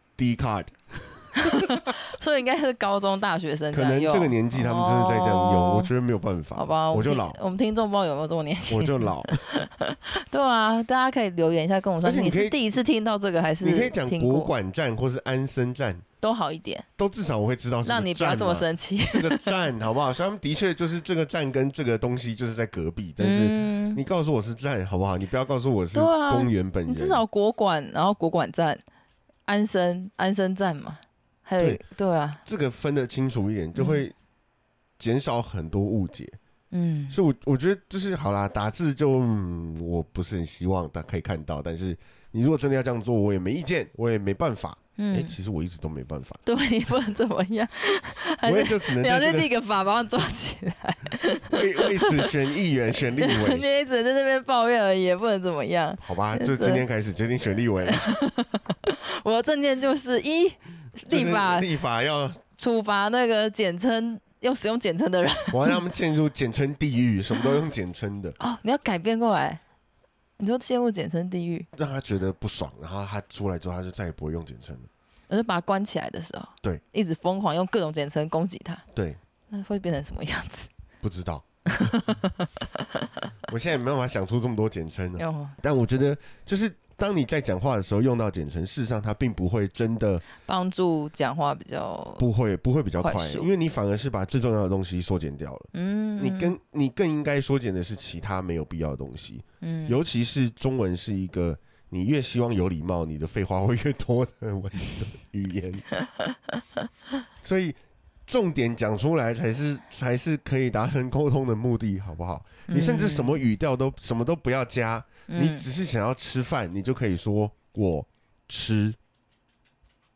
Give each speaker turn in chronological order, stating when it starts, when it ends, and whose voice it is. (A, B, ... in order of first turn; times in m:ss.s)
0:00.2-0:01.9 A
0:01.4-0:05.9 B
0:03.7-0:07.4 A
0:06.6-0:14.5 B
0:08.7-0:09.5 A
0:12.0-0:12.6 A
0:13.6-0:16.0 A
0:16.2-0:16.9 B
0:17.0-0:27.2 A
0:17.8-0:19.5 B
0:23.2-0:24.0 B
0:25.9-0:28.8 B
0:29.5-0:32.4 B
0:32.4-0:34.2 A
0:33.8-0:34.0 B
0:35.0-0:36.4 A
0:36.7-0:37.2 B
0:37.1-0:46.4 A
0:45.0-0:45.4 B
0:46.5-0:52.3 B
0:48.4-0:49.5 A
0:51.5-0:53.6 A
0:53.1-0:56.9 B
0:56.0-0:58.2 A
0:57.9-1:01.7 B
1:01.1-1:02.4 A
1:02.6-1:05.8 B
1:05.5-1:08.4 A
1:08.4-1:09.6 B
1:10.4-1:11.7 B
1:11.8-1:14.9 A
1:15.3-1:18.9 B
1:18.9-1:19.2 A
1:19.5-1:20.7 B
1:21.0-1:22.0 A
1:21.7-1:22.8 B
1:23.5-1:30.2 A
1:25.2-1:25.6 B
1:30.4-1:32.3 B
1:32.2-1:45.9 A
1:33.0-1:33.5 B
1:35.7-1:36.6 B
1:39.6-1:40.0 B
1:46.2-1:46.6 B
1:47.4-1:59.0 A
1:52.7-1:53.4 B
1:55.3-1:55.7 B